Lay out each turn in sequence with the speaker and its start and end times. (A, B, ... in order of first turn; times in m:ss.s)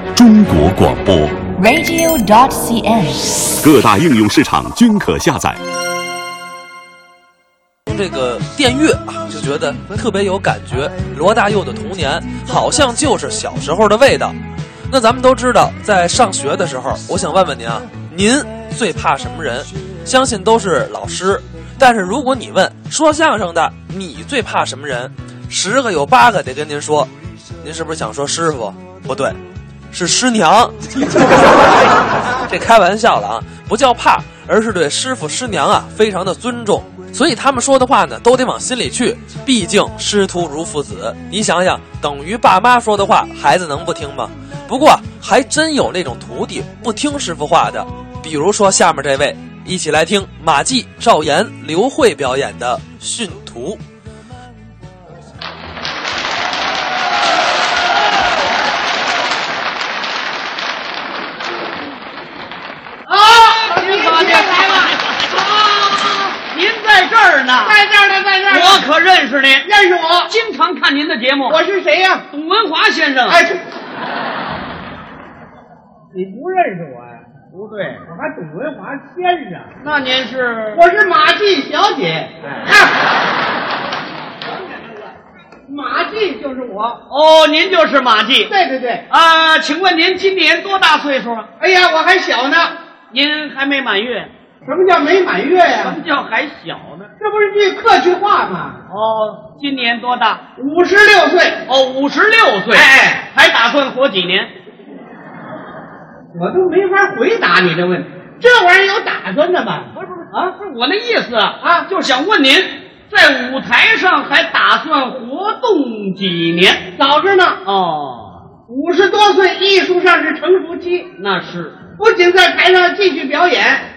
0:00.1-0:01.5 A
0:01.5-0:03.5 B
0:03.6-0:05.6 A
0:07.9-0:14.4 C
0:14.9-0:27.1 C
0:27.6-0:29.4 C
0:29.9-0:53.8 C
1:03.1-1:06.4 D
1:03.1-1:05.2 E
1:06.5-1:07.8 E
1:07.6-1:08.8 D
1:08.4-1:09.7 E
1:09.6-1:10.3 D
1:10.2-1:11.6 E
1:11.5-1:12.2 D
1:12.3-1:13.4 E
1:13.3-1:13.6 D
1:16.1-1:17.2 D
1:17.5-1:18.0 E
1:18.0-1:19.7 D
1:19.8-1:20.8 E
1:20.7-1:22.3 D
1:22.4-1:22.7 E
1:25.7-1:27.0 D
1:27.1-1:28.5 E
1:28.5-1:29.0 D
1:29.1-1:31.5 E
1:31.6-1:32.7 D
1:33.1-1:34.3 E
1:34.6-1:36.0 D
1:35.6-1:37.1 E
1:37.2-1:38.8 D
1:38.9-1:40.4 E
1:40.6-1:41.6 D
1:41.6-1:44.5 E
1:42.7-1:43.2 D
1:46.3-1:50.0 D
1:50.0-1:56.9 E
1:51.6-1:51.9 D
1:57.0-1:57.6 D
1:57.6-1:58.4 E
1:58.7-2:01.1 D
2:01.2-2:01.8 E
2:02.0-2:03.9 D